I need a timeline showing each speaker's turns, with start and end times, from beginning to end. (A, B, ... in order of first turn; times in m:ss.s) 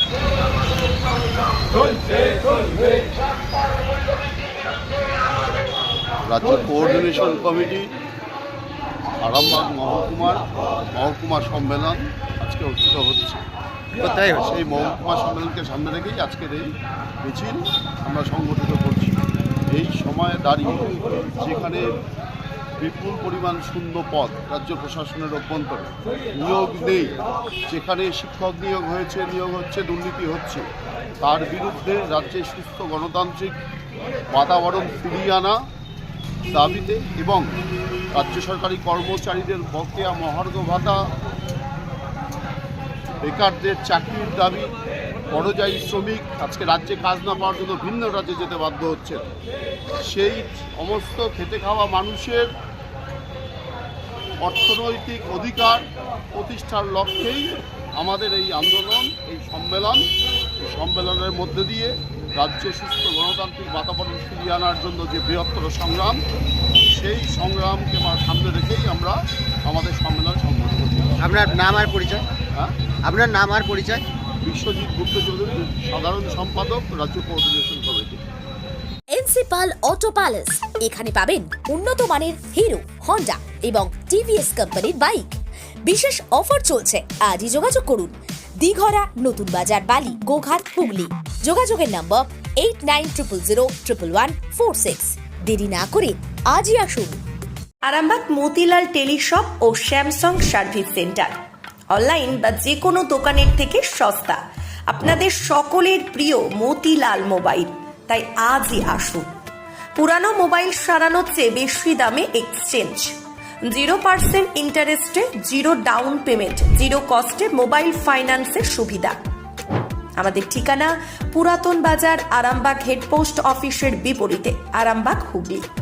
0:06.3-0:07.9 A
0:09.2-0:13.4 A
0:14.0-0:14.5 B
0:14.4-0:19.2 A
0:19.7-0:22.0 A
0:22.8-0:27.1 A
0:27.7-0:30.6 A
0:31.2-0:33.6 A
0:34.3-0:35.6 A
0:36.5-0:37.5 A
0:38.1-0:41.0 A
0:43.2-0:44.7 A
0:45.3-0:49.2 A
0:50.0-0:52.5 A
0:54.4-1:00.0 A
1:00.6-1:06.2 A
1:06.9-1:11.1 A
1:11.2-1:12.2 B
1:13.0-1:14.0 B
1:14.4-1:18.2 A
1:19.1-1:25.3 C
1:25.8-1:37.2 C
1:37.8-1:41.3 D
1:41.9-1:49.3 D
1:50.0-1:53.2 D
1:53.7-1:59.2 D
2:00.2-2:05.7 D